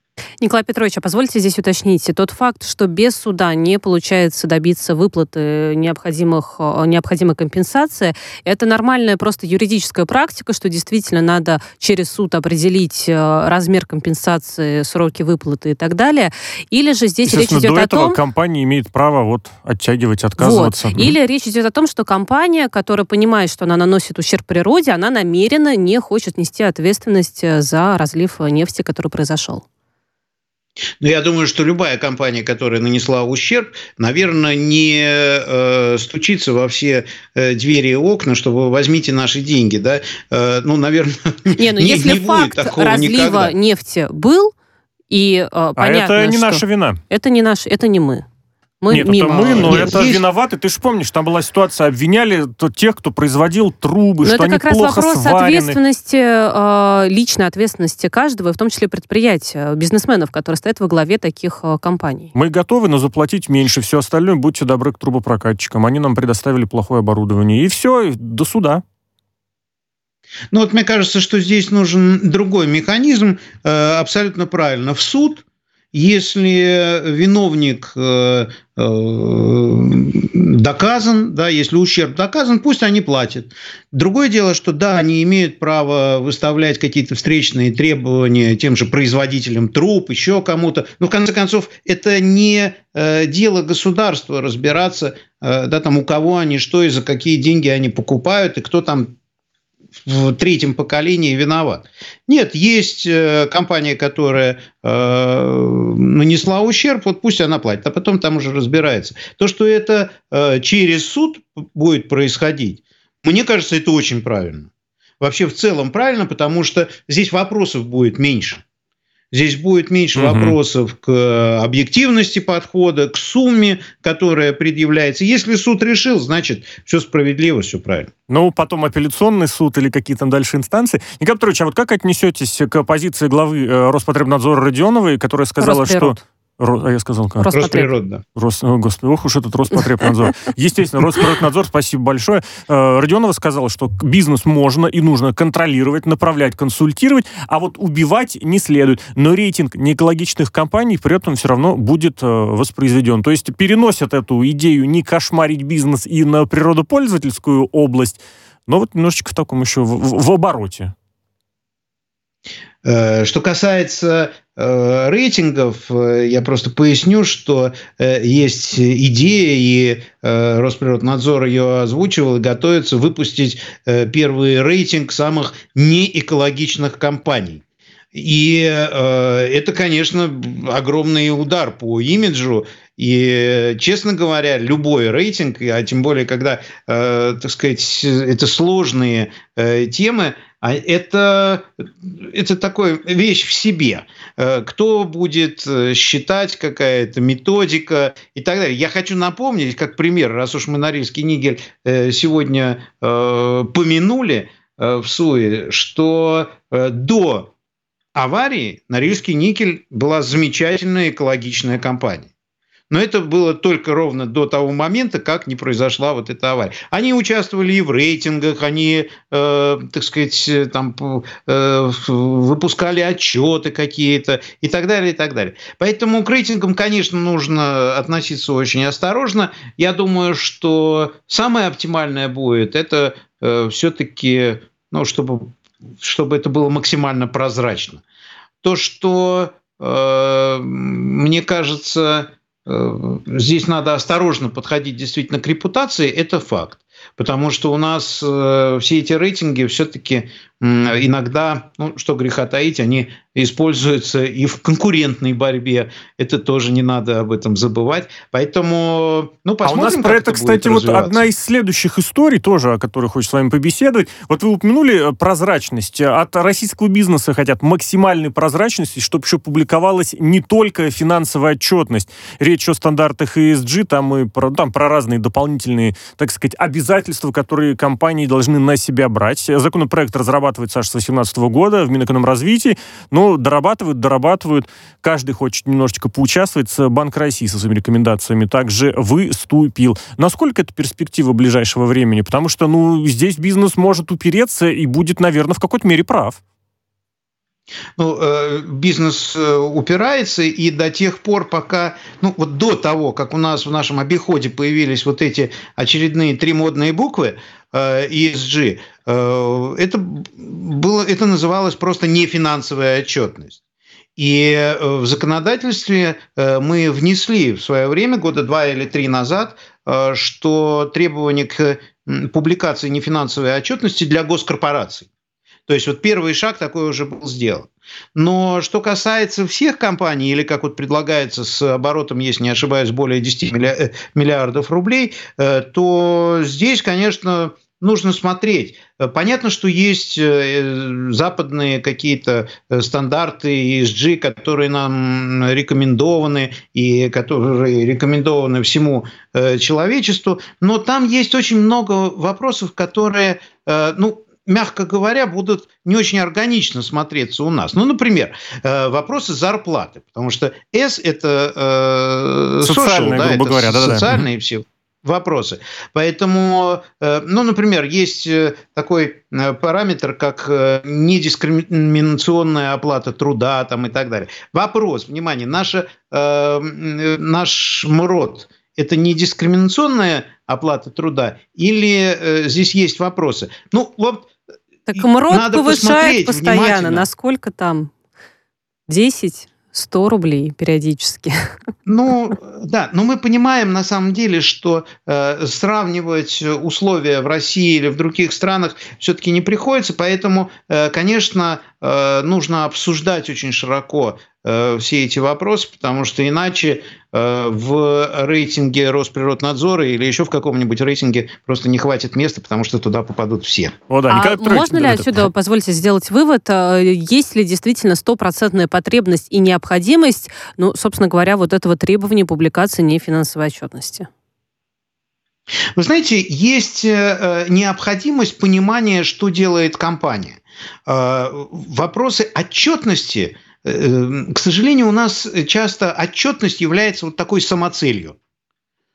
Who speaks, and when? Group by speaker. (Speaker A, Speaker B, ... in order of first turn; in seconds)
Speaker A: 0.4-18.2, 20.4-29.6, 41.6-44.5, 45.1-48.2, 48.8-50.0, 54.2-62.3, 135.6-136.2, 137.4-137.9, 384.9-387.9, 388.9-391.5, 414.1-424.1
Speaker B: 17.2-21.2, 45.8-47.0, 48.9-55.8, 62.4-68.8, 120.2-120.6, 128.3-137.5, 138.4-160.9, 259.6-296.4, 362.6-364.2, 413.9-415.3
Speaker C: 31.0-43.5, 49.6-50.2, 70.5-99.1, 100.0-114.7, 115.2-118.6, 119.3-128.1, 137.5-138.2, 162.8-177.6, 178.1-207.5, 208.2-212.3, 212.9-238.0, 238.6-261.3, 298.0-313.6, 314.2-325.1, 325.7-384.3, 385.0-387.1, 391.9-413.8, 425.8-438.2